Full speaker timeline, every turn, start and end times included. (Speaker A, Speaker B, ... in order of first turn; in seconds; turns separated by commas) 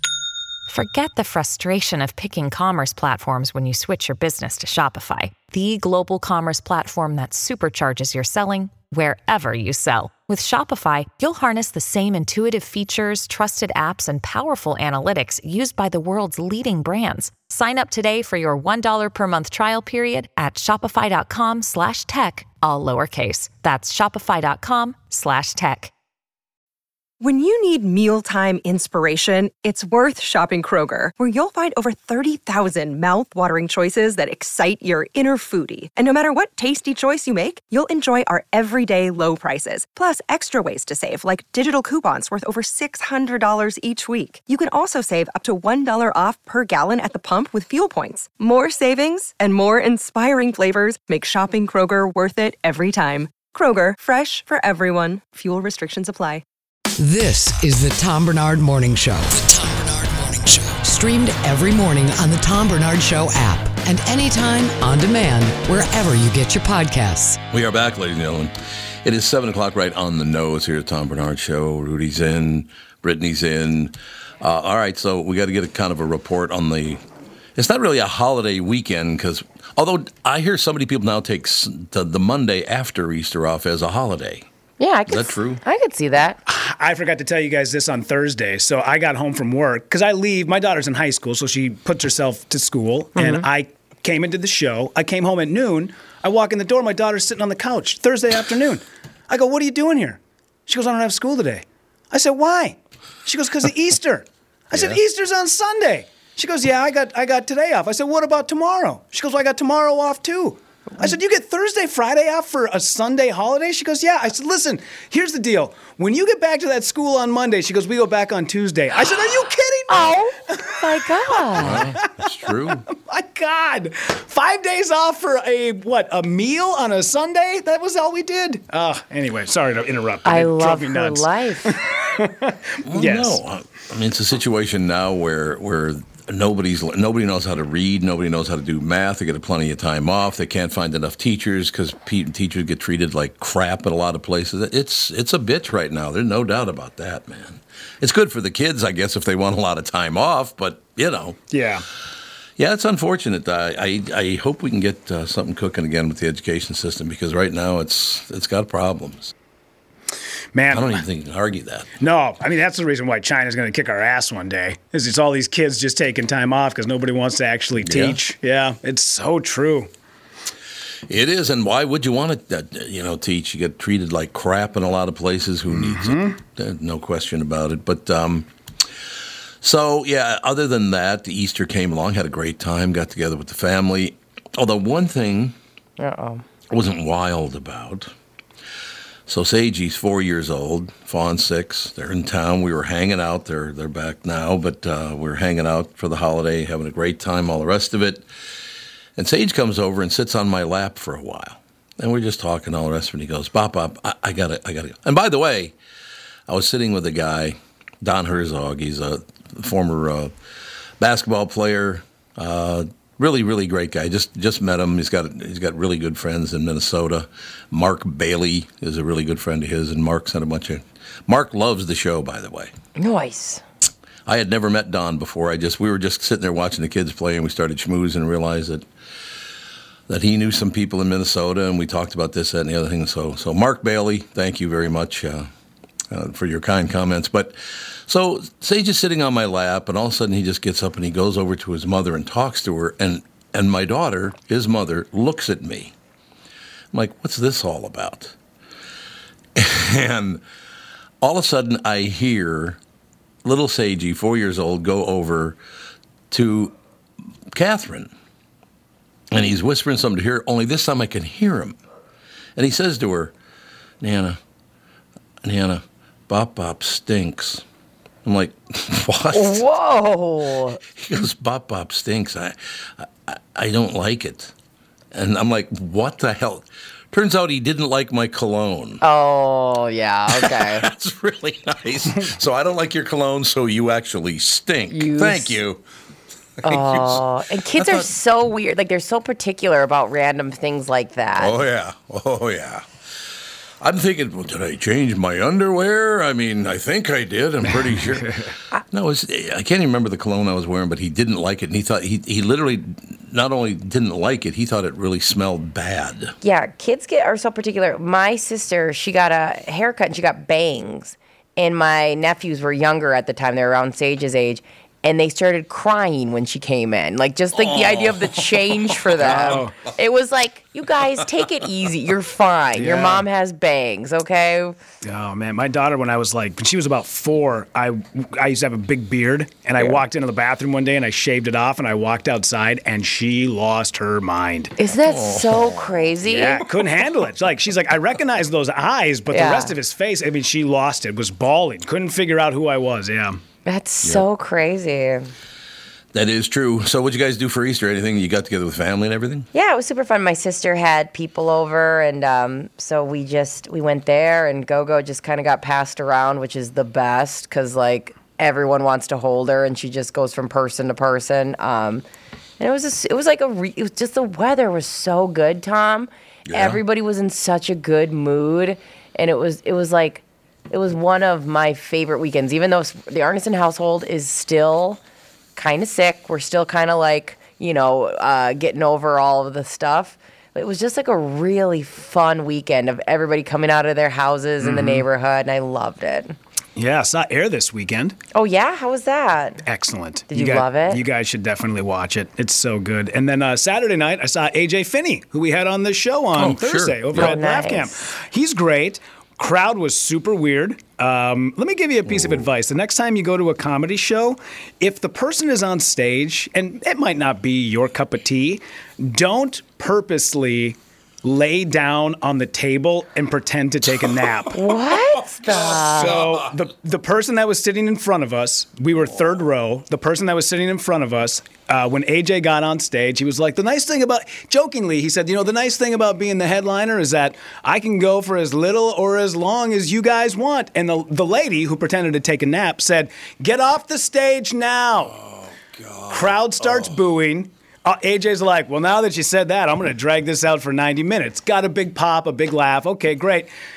Speaker A: 0.7-25.9, Speaker B: 27.2-56.4, Speaker C: 57.0-67.4, Speaker D: 67.5-68.5, Speaker D: 69.0-77.0, Speaker D: 77.5-84.4, Speaker E: 84.8-86.4, Speaker D: 85.1-85.6, Speaker F: 86.5-122.3, Speaker E: 93.2-93.5, Speaker D: 104.7-105.0, Speaker E: 119.9-121.9, Speaker D: 121.6-122.8, Speaker F: 122.9-133.4, Speaker E: 130.2-131.8, Speaker D: 132.8-151.4, Speaker F: 151.5-151.8, Speaker D: 152.6-159.3, Speaker F: 160.5-161.0, Speaker D: 160.7-161.9, Speaker F: 162.0-169.9, Speaker D: 167.8-168.2, Speaker D: 171.1-178.5, Speaker F: 175.7-176.3, Speaker D: 179.6-185.6, Speaker E: 186.0-186.4, Speaker D: 186.7-188.1, Speaker D: 189.3-198.2, Speaker D: 199.2-205.7, Speaker D: 206.5-210.3, Speaker D: 211.0-222.7, Speaker E: 222.9-223.6, Speaker D: 224.2-228.8, Speaker D: 230.1-235.5, Speaker D: 236.1-237.6, Speaker D: 238.1-245.9, Speaker D: 246.9-248.3, Speaker D: 249.5-250.4, Speaker D: 251.2-252.8, Speaker D: 253.4-255.6, Speaker D: 256.3-256.8, Speaker D: 257.5-258.1, Speaker D: 259.3-261.8, Speaker D: 262.6-263.3, Speaker D: 264.0-264.4, Speaker D: 265.4-267.6, Speaker D: 268.2-269.6, Speaker E: 269.3-270.8, Speaker D: 270.9-274.5, Speaker D: 275.1-279.0, Speaker E: 279.0-280.9, Speaker D: 280.3-285.8, Speaker E: 284.9-285.6, Speaker E: 286.6-291.6, Speaker D: 286.6-288.1, Speaker D: 291.4-292.9, Speaker D: 293.8-298.4, Speaker F: 297.7-298.4, Speaker D: 298.9-306.3, Speaker E: 306.4-324.8, Speaker D: 317.5-319.7, Speaker F: 319.2-319.7, Speaker F: 322.7-323.2, Speaker F: 325.0-334.7, Speaker E: 334.8-336.6, Speaker D: 335.0-335.9, Speaker F: 336.2-343.4, Speaker E: 339.3-339.8, Speaker E: 343.6-345.3, Speaker D: 346.1-349.5, Speaker E: 349.5-362.0, Speaker E: 362.6-375.0, Speaker D: 366.5-366.8, Speaker E: 375.6-386.4, Speaker F: 384.6-385.1, Speaker F: 386.8-388.1, Speaker E: 388.3-389.6, Speaker F: 389.6-414.6, Speaker E: 390.3-391.0, Speaker D: 396.4-397.4, Speaker E: 397.1-397.9, Speaker D: 402.1-402.5, Speaker E: 414.5-416.2, Speaker D: 415.2-416.5, Speaker F: 415.5-435.1, Speaker D: 435.1-437.0, Speaker F: 436.1-443.5